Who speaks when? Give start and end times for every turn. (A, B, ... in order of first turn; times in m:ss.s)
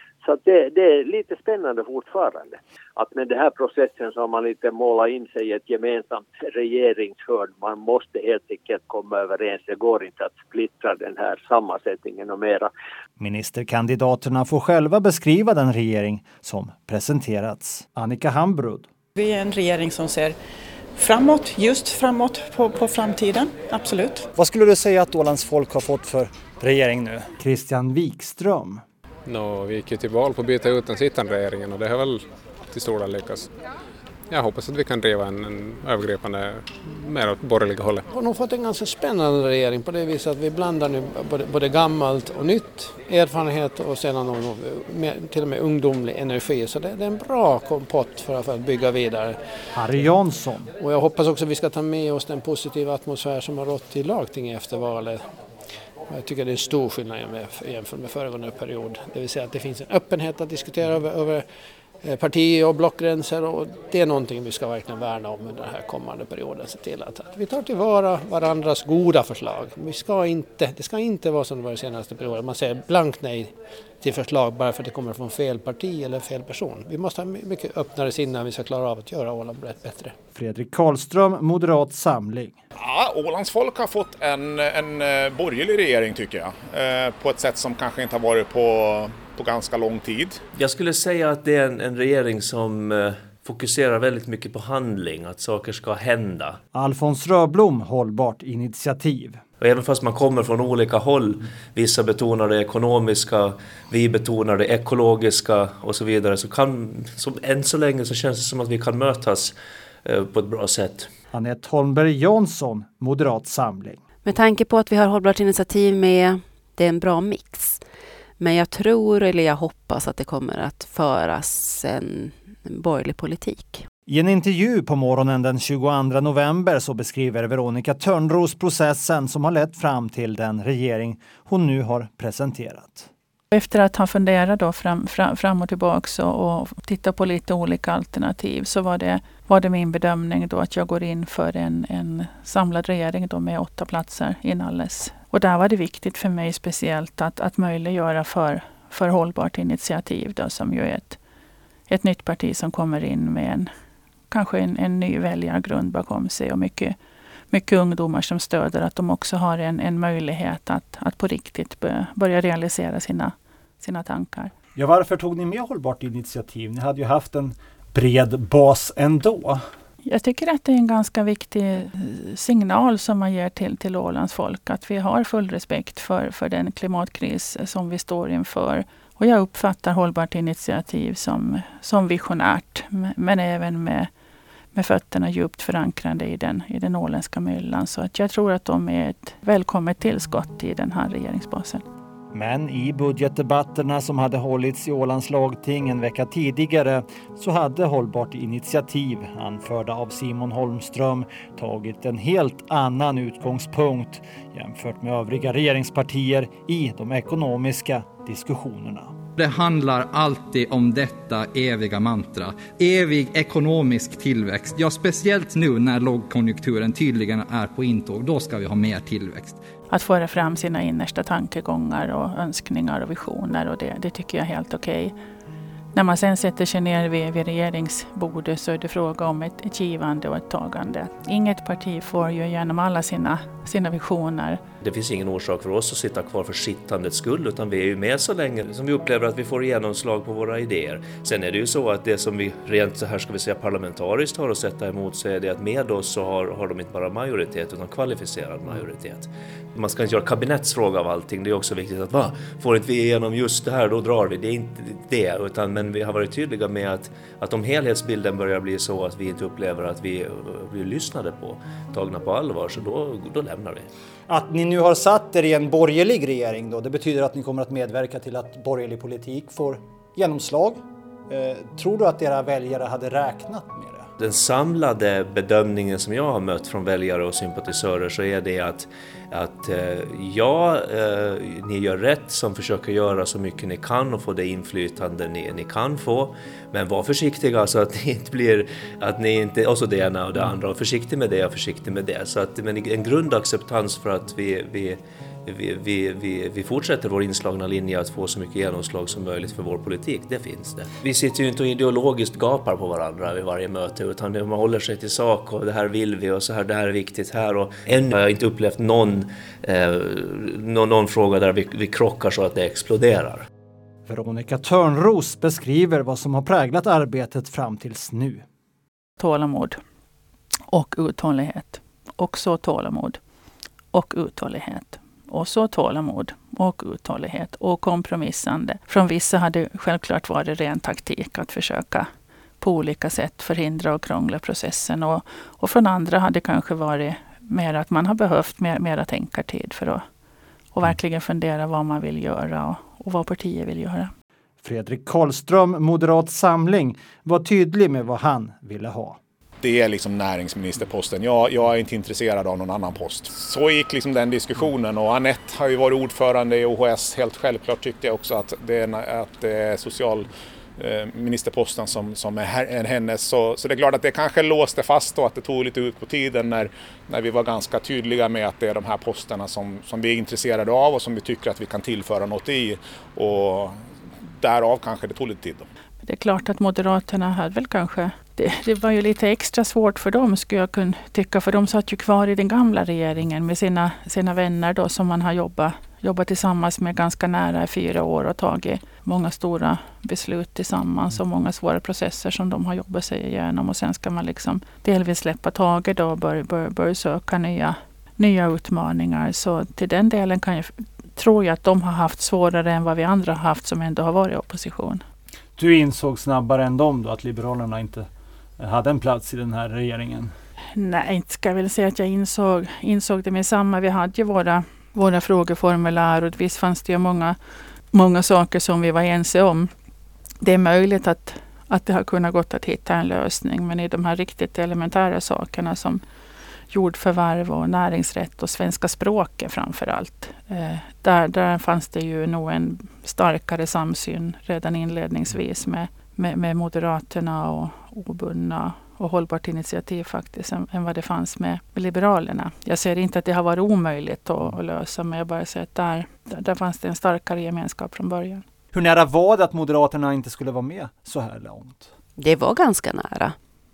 0:00.2-0:12.7 A
0:13.2-0:18.9 B
0:19.2-0:20.4 C
0:21.0-0:24.3 C
0:24.4-0:28.8 B
0:29.3-0:33.5 D
0:34.3-0:38.0 D
0:38.1-0:49.4 E
0:49.7-0:50.7 B
0:50.8-0:55.3 E
0:56.1-1:01.5 E
1:02.0-1:20.1 E
1:20.4-1:22.6 B
1:22.8-1:30.4 F
1:30.6-1:36.6 G
1:36.7-1:39.4 B
1:39.6-1:51.1 G
1:51.3-1:54.0 B
1:54.2-1:57.8 H
1:58.4-2:03.8 H
2:04.1-2:13.1 B
2:13.5-2:31.2 I
2:31.9-2:33.7 I
2:34.3-2:37.0 I
2:37.5-2:44.5 I
2:44.8-2:49.6 B
2:50.0-3:04.1 I
3:04.7-3:11.8 I
3:12.3-3:29.1 B
3:29.4-3:39.6 J
3:39.9-3:45.1 I
3:45.9-3:54.6 I
3:54.8-4:23.9 G
4:24.3-4:34.1 B
4:34.2-5:13.4 G
5:14.1-5:18.4 B
5:19.2-5:19.8 I
5:20.7-5:23.2 I
5:23.9-5:32.1 I
5:32.6-5:40.0 I
5:40.7-5:44.1 I
5:44.6-5:49.2 B
5:49.6-6:13.8 F
6:14.4-6:15.7 F
6:16.0-6:45.0 I
6:45.6-6:48.1 B
6:48.6-6:50.3 B
6:50.8-6:57.4 I
6:57.9-6:59.7 I
7:00.4-7:06.0 I
7:06.7-7:28.4 I
7:28.7-7:31.9 B
7:32.2-7:33.4 H